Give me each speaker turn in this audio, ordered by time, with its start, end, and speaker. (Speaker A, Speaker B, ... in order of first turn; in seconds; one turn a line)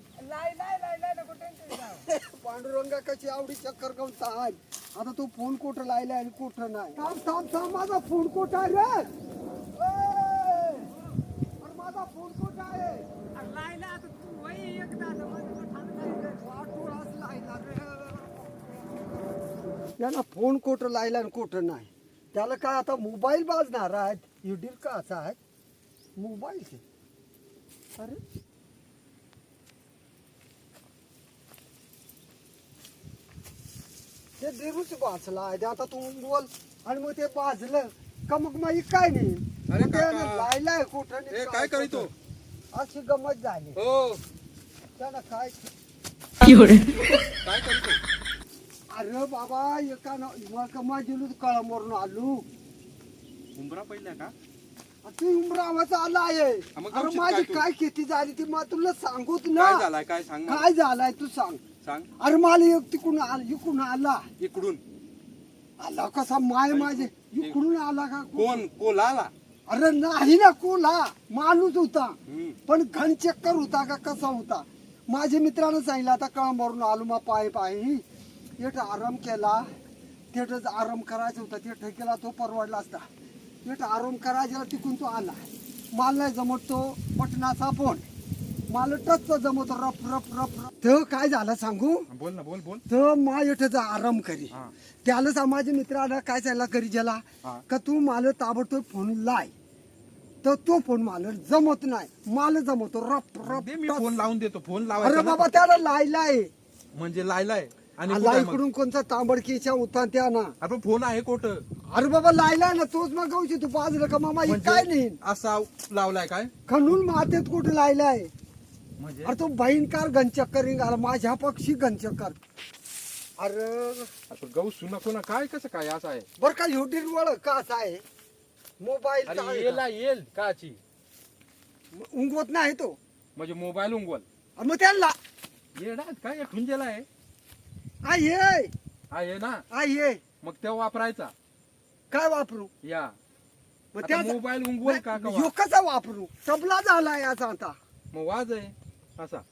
Speaker A: 0.1-2.1
Speaker B: 2.1-9.1
Speaker B: 9.7-10.9
Speaker B: 11.6-13.1
Speaker A: 13.3-16.4
Speaker B: 16.1-19.2
Speaker B: 19.8-25.4
Speaker B: 26.2-26.8
Speaker B: 34.4-42.1
Speaker C: 39.7-40.5
Speaker C: 41.3-42.1
Speaker B: 42.7-43.8
Speaker C: 43.8-44.2
Speaker B: 45.0-45.7
Speaker C: 47.4-48.0
Speaker B: 48.9-52.4
Speaker C: 53.5-54.3
Speaker B: 55.0-59.9
Speaker C: 56.8-57.6
Speaker C: 59.5-60.7
Speaker B: 60.5-61.6
Speaker C: 61.8-62.1
Speaker B: 62.2-64.3
Speaker C: 64.4-64.8
Speaker B: 65.8-68.7
Speaker C: 66.7-67.6
Speaker C: 68.3-69.3
Speaker B: 69.7-78.0
Speaker C: 72.3-72.6
Speaker B: 78.6-79.7
Speaker B: 80.3-83.0
Speaker B: 83.6-88.0
Speaker B: 88.7-92.1
Speaker C: 92.1-92.8
Speaker B: 92.9-99.5
Speaker B: 100.4-104.2
Speaker C: 103.4-105.5
Speaker B: 105.0-106.5
Speaker C: 106.9-108.6
Speaker B: 108.0-110.5
Speaker C: 110.6-111.6
Speaker B: 111.9-115.2
Speaker C: 114.4-116.5
Speaker B: 116.7-118.3
Speaker C: 119.0-119.3
Speaker B: 119.2-122.4
Speaker B: 123.4-124.1
Speaker C: 124.3-126.3
Speaker B: 126.4-128.0
Speaker B: 128.8-129.8
Speaker C: 129.2-130.8
Speaker B: 131.9-133.0
Speaker C: 133.3-134.2
Speaker B: 134.6-135.2
Speaker C: 135.7-137.1
Speaker B: 138.0-138.7
Speaker C: 139.1-139.6
Speaker B: 139.7-140.2
Speaker C: 140.4-141.3
Speaker B: 142.1-142.7
Speaker C: 142.8-143.1
Speaker B: 143.9-147.8
Speaker C: 144.0-145.5
Speaker C: 148.1-149.4